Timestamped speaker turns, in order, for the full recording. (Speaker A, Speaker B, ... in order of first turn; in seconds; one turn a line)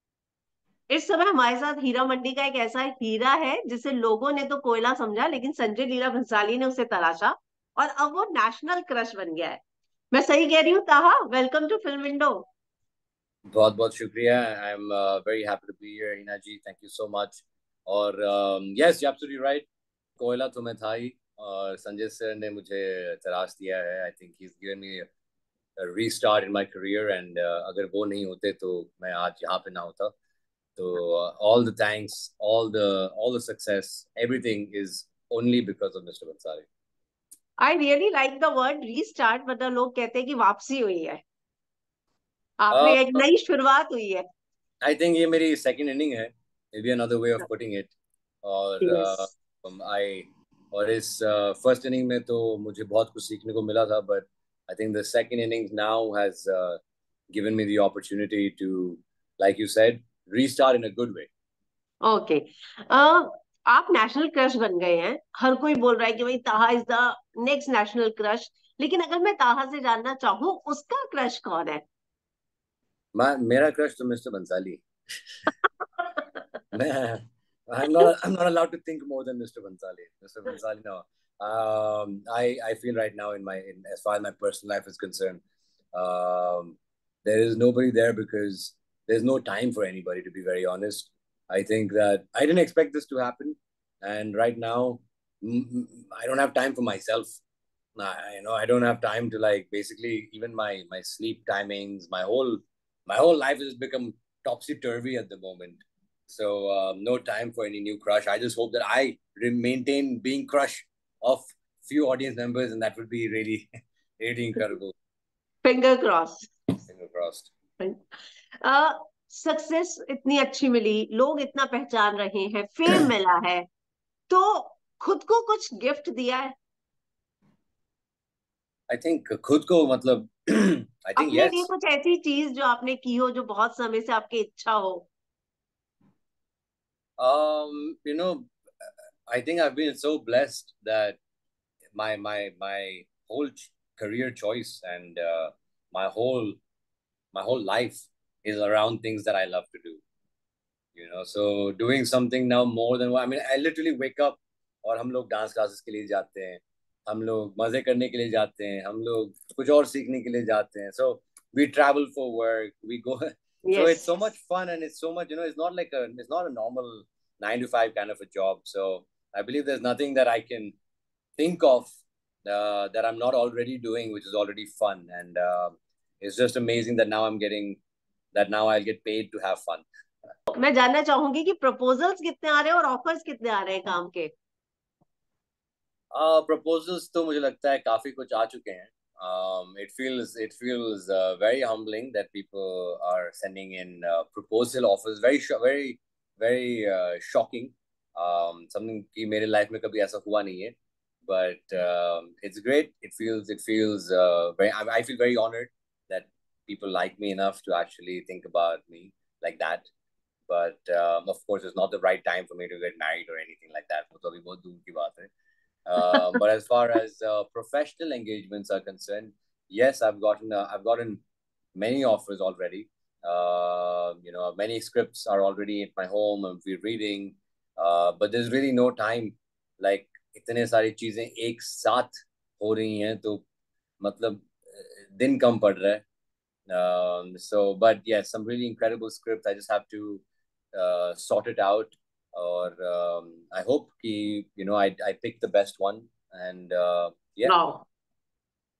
Speaker A: 0.9-9.6
Speaker A: 10.1-12.5
Speaker B: 13.5-19.6
Speaker B: 20.2-25.1
Speaker B: 25.8-30.1
Speaker B: 30.8-36.7
Speaker A: 37.6-41.2
Speaker A: 42.6-44.2
Speaker B: 42.7-43.2
Speaker B: 44.8-61.3
Speaker A: 48.8-49.3
Speaker A: 62.0-71.8
Speaker B: 73.1-75.5
Speaker B: 76.7-85.4
Speaker B: 85.9-97.3
Speaker B: 98.0-113.7
Speaker B: 114.2-114.9
Speaker A: 115.6-116.5
Speaker B: 116.8-117.5
Speaker A: 118.6-123.7
Speaker A: 124.3-126.5
Speaker B: 128.9-131.7
Speaker A: 131.2-135.1
Speaker B: 137.2-141.2
Speaker B: 141.9-146.6
Speaker B: 147.3-150.0
Speaker B: 150.9-170.7
Speaker A: 163.6-164.1
Speaker B: 171.4-171.9
Speaker B: 172.4-177.8
Speaker B: 178.3-179.9
Speaker A: 180.5-184.3
Speaker B: 186.1-209.9
Speaker B: 210.5-215.3
Speaker B: 215.8-221.2
Speaker B: 221.7-233.4
Speaker B: 234.0-236.0
Speaker B: 236.7-240.2
Speaker B: 240.7-247.5
Speaker A: 247.5-247.8